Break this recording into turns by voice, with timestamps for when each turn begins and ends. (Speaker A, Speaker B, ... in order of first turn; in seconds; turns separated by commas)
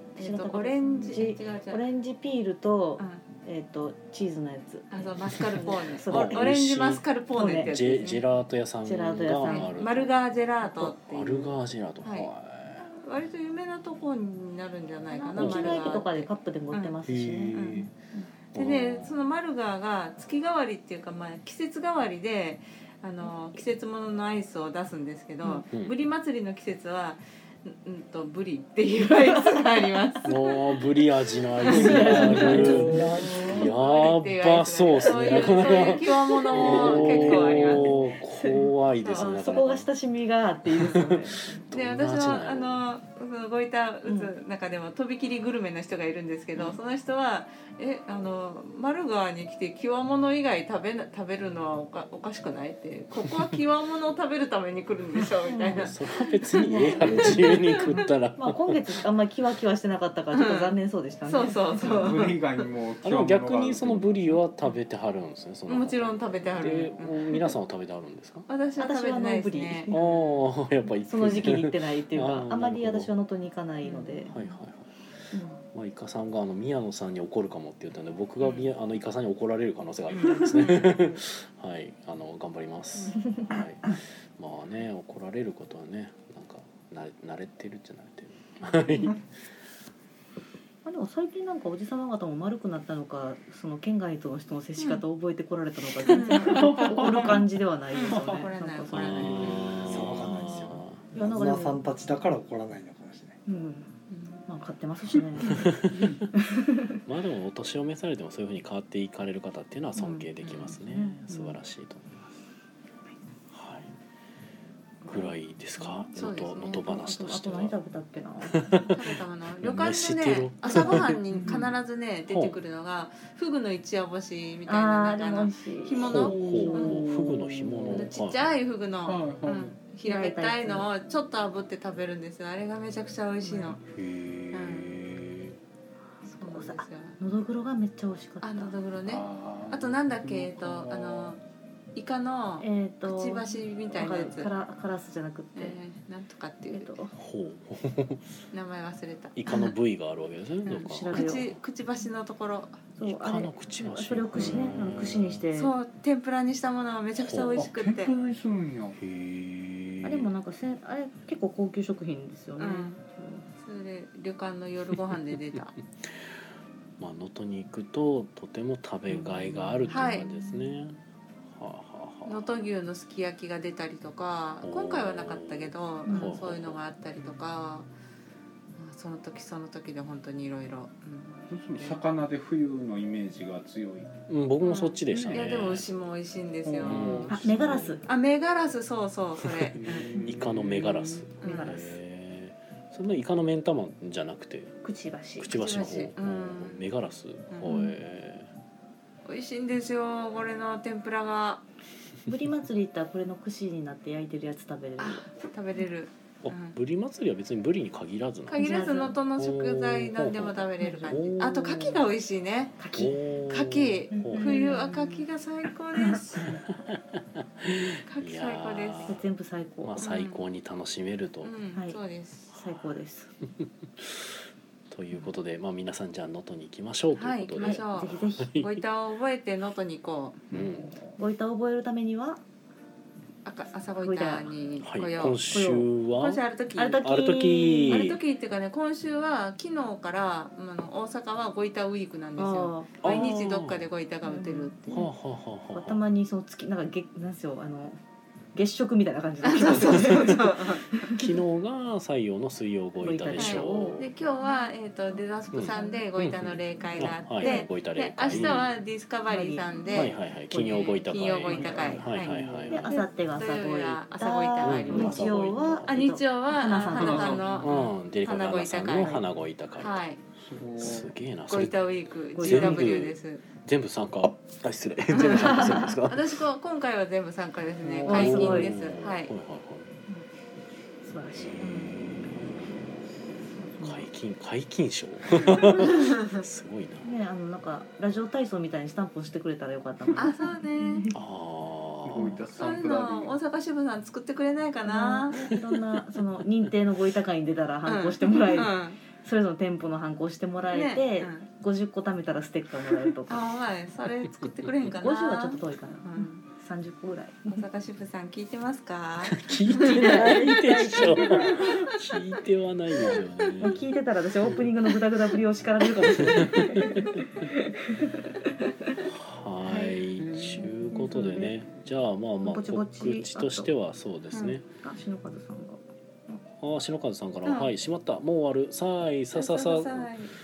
Speaker A: 0.2-1.8, Speaker B: 0.2-6.4, Speaker A: 3.0-3.2, Speaker A: 4.9-8.3, Speaker C: 5.5-7.1, Speaker B: 7.3-7.8, Speaker C: 7.6-10.2, Speaker B: 8.8-9.7, Speaker A: 9.4-12.3, Speaker C: 10.8-12.9, Speaker A: 12.9-17.0, Speaker B: 15.1-18.3, Speaker C: 15.3-16.0, Speaker C: 17.1-17.9, Speaker A: 17.6-17.9, Speaker C: 18.5-19.2, Speaker A: 18.5-30.6, Speaker C: 25.7-25.9, Speaker C: 30.2-39.9, Speaker A: 31.6-32.5, Speaker B: 31.6-33.4, Speaker D: 32.0-33.6, Speaker A: 33.2-37.9, Speaker B: 35.4-41.6, Speaker A: 39.0-39.4, Speaker C: 40.7-42.8, Speaker A: 41.7-58.1, Speaker B: 44.0-44.3, Speaker B: 55.5-55.9, Speaker C: 55.7-58.8, Speaker B: 56.6-62.3, Speaker A: 60.3-62.4, Speaker D: 61.8-64.3, Speaker C: 63.0-68.5, Speaker A: 65.7-67.5, Speaker A: 68.5-70.3, Speaker B: 68.8-70.0, Speaker C: 69.9-73.1, Speaker B: 71.1-74.3, Speaker A: 73.8-74.5, Speaker C: 74.3-74.9, Speaker B: 75.3-75.6, Speaker C: 75.7-89.2, Speaker A: 78.4-78.7, Speaker B: 80.4-81.2, Speaker A: 80.5-81.0, Speaker B: 90.8-99.7, Speaker A: 96.1-97.3, Speaker D: 96.5-97.4, Speaker A: 97.9-99.8, Speaker C: 98.9-101.0, Speaker E: 99.8-103.4, Speaker B: 101.1-101.9, Speaker B: 103.5-104.0, Speaker A: 104.1-104.4, Speaker B: 104.5-105.8, Speaker C: 105.5-106.2, Speaker B: 106.3-107.0, Speaker C: 107.1-112.3, Speaker B: 110.0-111.6, Speaker A: 110.4-110.8, Speaker C: 113.5-113.9, Speaker B: 115.0-116.1, Speaker C: 115.1-117.7, Speaker A: 116.1-116.9, Speaker B: 116.8-118.9, Speaker C: 118.5-121.5, Speaker A: 118.9-127.0, Speaker B: 120.7-121.5, Speaker D: 121.3-121.7, Speaker C: 122.3-122.6, Speaker B: 124.7-127.0, Speaker C: 126.0-128.5, Speaker D: 126.2-128.1, Speaker A: 127.9-133.8, Speaker D: 129.0-129.8, Speaker B: 130.0-130.9, Speaker B: 133.4-133.8, Speaker C: 133.9-135.6, Speaker A: 134.5-134.9, Speaker A: 136.3-137.2, Speaker B: 136.4-138.8, Speaker A: 138.4-141.4, Speaker D: 139.1-141.4, Speaker A: 141.9-144.5, Speaker B: 142.6-145.8, Speaker A: 145.6-146.9, Speaker B: 146.7-147.1, Speaker C: 147.1-148.2, Speaker A: 148.5-149.4, Speaker C: 149.3-151.6, Speaker A: 150.7-152.9, Speaker B: 150.8-151.5, Speaker B: 153.0-155.7, Speaker C: 153.0-155.4, Speaker A: 155.5-158.1, Speaker C: 157.2-157.7, Speaker D: 157.6-159.0, Speaker C: 159.0-160.3, Speaker B: 160.0-163.5, Speaker A: 162.6-163.0, Speaker A: 163.6-165.7, Speaker C: 167.0-171.0, Speaker B: 169.1-170.7, Speaker A: 169.9-170.3, Speaker C: 171.6-172.7, Speaker A: 172.3-177.9, Speaker C: 174.6-176.8, Speaker B: 176.1-176.4, Speaker A: 178.8-182.0, Speaker D: 181.5-184.1, Speaker C: 184.3-185.9, Speaker A: 184.6-187.4, Speaker D: 185.1-185.7, Speaker D: 186.6-187.9, Speaker C: 186.8-188.0, Speaker B: 187.3-188.0, Speaker A: 188.0-190.2, Speaker C: 189.4-194.8, Speaker D: 189.7-191.2, Speaker A: 191.3-191.8, Speaker B: 191.4-192.0, Speaker B: 194.8-195.5, Speaker C: 195.4-198.5, Speaker A: 195.5-196.9, Speaker A: 197.5-197.9, Speaker B: 197.7-197.9, Speaker A: 199.2-201.6, Speaker B: 202.3-205.3, Speaker A: 205.0-206.8, Speaker C: 206.4-212.1, Speaker A: 208.5-212.9, Speaker B: 208.6-209.2, Speaker B: 210.8-211.5, Speaker B: 212.8-213.2, Speaker C: 212.9-214.8, Speaker A: 213.5-216.6, Speaker B: 214.1-215.2, Speaker B: 215.9-216.5, Speaker C: 216.4-219.2, Speaker A: 218.1-219.2, Speaker B: 219.1-220.1, Speaker C: 219.8-221.6, Speaker A: 220.0-220.4, Speaker A: 221.4-222.5, Speaker B: 221.7-222.0, Speaker B: 222.5-223.3, Speaker C: 222.6-222.9, Speaker C: 224.0-224.3, Speaker C: 224.9-228.8, Speaker A: 227.1-230.6, Speaker B: 227.6-228.6, Speaker C: 230.5-230.9, Speaker B: 231.2-232.4, Speaker A: 233.4-235.5, Speaker B: 234.0-234.5, Speaker C: 234.8-236.4, Speaker B: 235.5-235.9, Speaker A: 236.1-237.1, Speaker B: 236.8-238.1, Speaker C: 237.0-238.2, Speaker A: 237.9-245.1, Speaker B: 242.4-243.2, Speaker C: 243.0-243.9, Speaker B: 244.2-245.1, Speaker C: 244.9-246.0, Speaker B: 245.7-248.0, Speaker B: 248.6-251.3, Speaker A: 249.4-251.2, Speaker C: 249.8-250.4, Speaker C: 251.2-254.1, Speaker B: 253.0-256.1, Speaker A: 253.4-269.2, Speaker C: 255.5-258.7, Speaker B: 257.0-257.7, Speaker B: 258.3-258.7, Speaker B: 259.3-262.0, Speaker C: 259.9-262.9, Speaker D: 261.7-262.9, Speaker B: 262.7-267.5, Speaker C: 264.6-266.0, Speaker D: 264.9-265.3, Speaker D: 266.9-267.8, Speaker C: 267.6-270.0, Speaker A: 269.8-270.2, Speaker D: 270.4-271.1, Speaker C: 270.8-276.4, Speaker A: 271.5-273.4, Speaker B: 272.4-273.0, Speaker A: 275.1-279.3, Speaker B: 275.4-275.9, Speaker D: 277.8-278.5, Speaker B: 278.1-278.7, Speaker C: 278.1-279.9, Speaker B: 281.0-282.5, Speaker C: 281.5-282.9, Speaker A: 281.6-281.9, Speaker B: 283.6-284.1, Speaker C: 283.8-287.1, Speaker B: 285.4-286.1, Speaker A: 285.9-286.4, Speaker B: 287.0-291.1, Speaker A: 290.1-291.1, Speaker C: 291.1-292.4, Speaker D: 292.0-293.4, Speaker A: 292.5-295.4, Speaker B: 294.9-303.5, Speaker A: 297.9-299.0, Speaker A: 300.7-301.5, Speaker A: 303.3-306.4, Speaker B: 304.9-307.6, Speaker A: 307.5-310.3, Speaker C: 309.2-313.8, Speaker B: 309.7-311.9, Speaker A: 313.0-313.5, Speaker B: 313.6-319.0, Speaker C: 316.0-317.1, Speaker C: 319.1-324.6, Speaker D: 320.2-320.7, Speaker B: 320.9-321.6, Speaker B: 322.4-323.7, Speaker A: 324.3-324.6, Speaker B: 324.6-326.4, Speaker C: 326.6-330.1, Speaker A: 327.4-327.7, Speaker A: 329.4-330.3